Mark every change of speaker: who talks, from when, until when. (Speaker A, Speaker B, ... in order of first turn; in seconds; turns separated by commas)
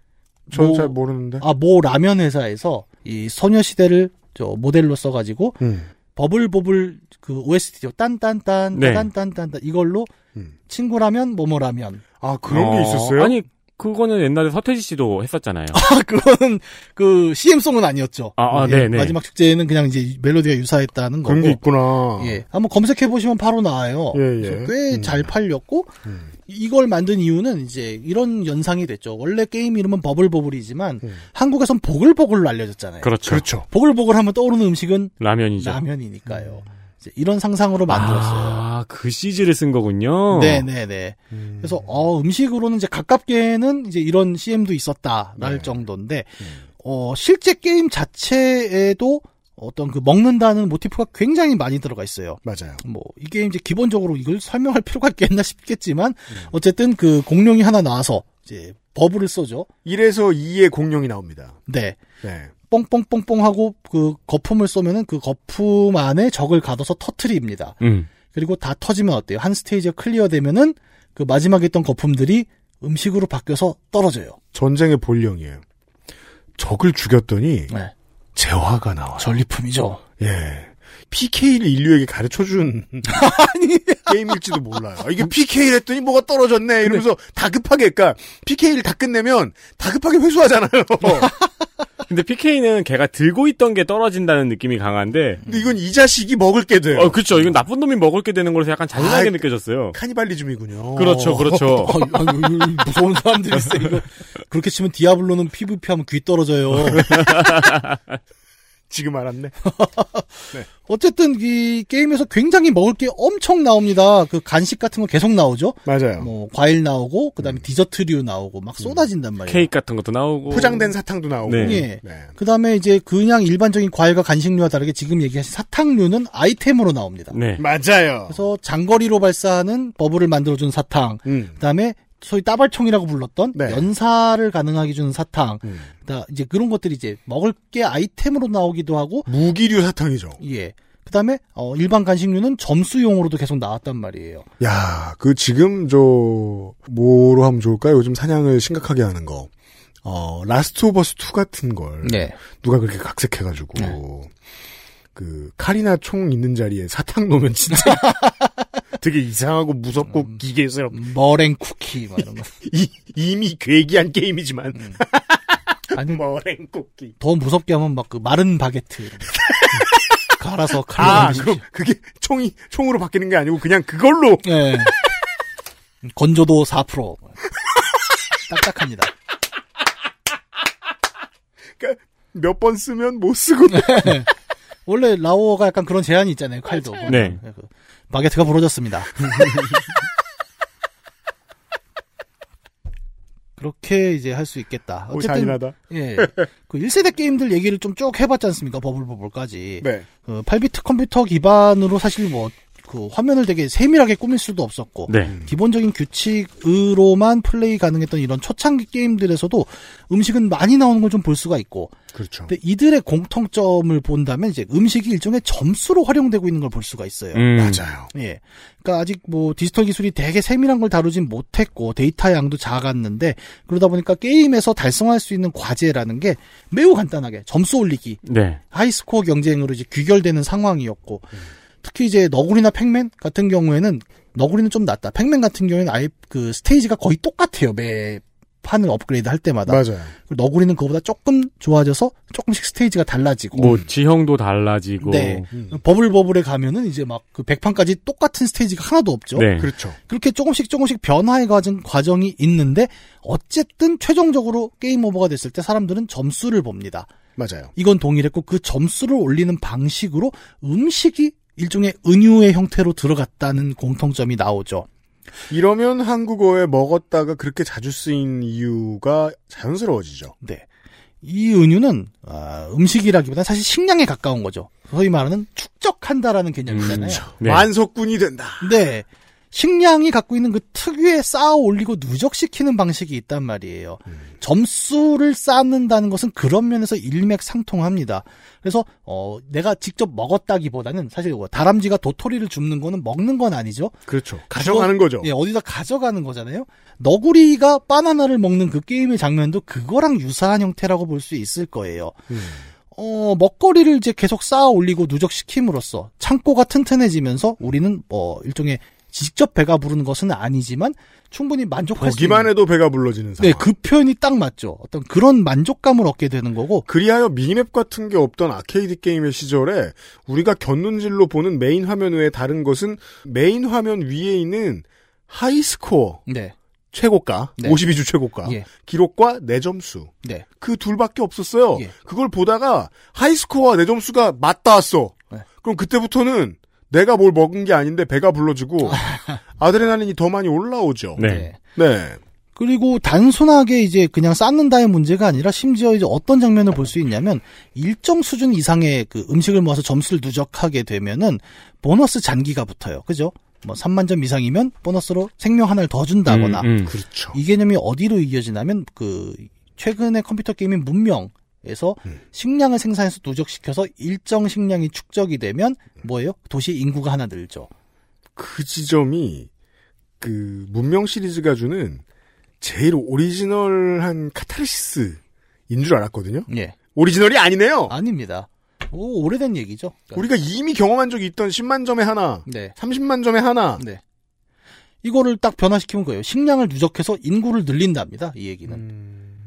Speaker A: 0.5-1.4, Speaker B: 0.5-5.6, Speaker A: 5.6-5.9, Speaker B: 6.1-10.1, Speaker C: 8.7-9.1, Speaker B: 10.7-12.0, Speaker A: 12.2-13.3, Speaker C: 12.5-15.8, Speaker B: 15.7-21.6, Speaker C: 18.4-19.2, Speaker A: 21.2-22.4, Speaker B: 22.2-25.9, Speaker A: 24.1-25.3, Speaker A: 26.0-26.3, Speaker B: 26.5-33.1, Speaker C: 33.0-33.4, Speaker A: 33.2-33.6, Speaker B: 33.6-38.6, Speaker C: 35.2-35.8, Speaker C: 37.9-40.7, Speaker B: 40.3-59.7, Speaker A: 41.3-41.9, Speaker A: 45.4-45.7, Speaker A: 52.4-52.8, Speaker A: 59.8-61.6, Speaker B: 61.7-62.0, Speaker A: 62.2-62.5, Speaker B: 62.7-67.8, Speaker C: 67.8-68.1, Speaker B: 68.3-74.4, Speaker A: 74.5-75.6, Speaker A: 76.6-77.7, Speaker A: 78.3-79.4, Speaker B: 79.2-80.0, Speaker A: 80.2-83.2, Speaker B: 83.0-84.4, Speaker A: 84.0-91.3, Speaker C: 92.1-95.4, Speaker B: 95.4-95.7, Speaker A: 95.5-97.5, Speaker C: 96.9-100.0, Speaker A: 98.9-102.0, Speaker C: 101.0-101.9, Speaker B: 101.8-107.3, Speaker C: 107.2-107.8, Speaker A: 108.9-109.5, Speaker B: 109.6-119.7, Speaker A: 115.8-116.3, Speaker C: 119.5-120.9, Speaker A: 120.5-122.3, Speaker C: 121.5-121.8, Speaker B: 121.6-127.3, Speaker C: 127.3-127.6, Speaker A: 127.6-128.4, Speaker B: 128.3-139.3, Speaker A: 131.2-131.6, Speaker A: 133.5-133.9, Speaker A: 139.3-140.4, Speaker B: 140.4-144.5, Speaker A: 144.6-149.5, Speaker A: 150.0-154.3, Speaker B: 152.0-152.4, Speaker A: 155.1-158.2, Speaker B: 157.7-158.4, Speaker A: 159.0-160.9, Speaker B: 160.1-160.4, Speaker B: 160.9-162.5, Speaker A: 162.6-167.1, Speaker B: 164.7-165.0, Speaker B: 165.9-166.2, Speaker B: 167.2-169.4, Speaker B: 170.3-171.6, Speaker A: 170.9-174.7, Speaker B: 174.4-174.9, Speaker B: 176.0-177.3, Speaker B: 178.5-179.1, Speaker A: 181.8-184.2, Speaker B: 183.7-184.3, Speaker B: 184.8-189.3, Speaker A: 186.7-187.1, Speaker C: 187.1-187.4, Speaker B: 193.6-211.9, Speaker A: 195.1-196.4, Speaker A: 199.8-200.1, Speaker C: 205.1-205.3, Speaker A: 212.1-212.5, Speaker B: 212.5-217.5, Speaker C: 217.3-217.8, Speaker A: 217.6-218.1, Speaker B: 218.1-243.8, Speaker C: 228.2-228.6, Speaker A: 239.7-240.1, Speaker C: 243.6-245.5, Speaker B: 245.0-249.5, Speaker A: 245.5-245.8, Speaker C: 249.3-249.7, Speaker A: 249.6-250.0, Speaker B: 250.1-257.1, Speaker A: 257.4-257.7, Speaker B: 257.8-264.9, Speaker A: 265.5-270.3, Speaker B: 271.2-277.2, Speaker C: 276.7-277.7, Speaker A: 276.8-278.7, Speaker B: 278.6-294.0, Speaker A: 294.1-295.3, Speaker B: 294.5-302.2, Speaker A: 302.3-302.6, Speaker B: 302.9-312.5, Speaker A: 312.0-313.7, Speaker B: 313.4-316.9, Speaker A: 316.9-326.2, Speaker B: 326.3-326.5, Speaker A: 326.9-342.2, Speaker B: 328.4-328.7, Speaker B: 338.8-339.4, Speaker C: 341.2-341.5, Speaker B: 341.2-341.6, Speaker B: 342.6-356.7, Speaker C: 356.3-356.9, Speaker A: 356.8-357.4, Speaker B: 357.3-367.7, Speaker A: 368.4-369.5, Speaker A: 370.2-372.0, Speaker A: 372.6-377.9, Speaker B: 376.5-376.8, Speaker B: 377.9-380.2, Speaker A: 380.1-383.8, Speaker B: 382.4-382.7, Speaker B: 385.0-388.8, Speaker A: 388.7-389.3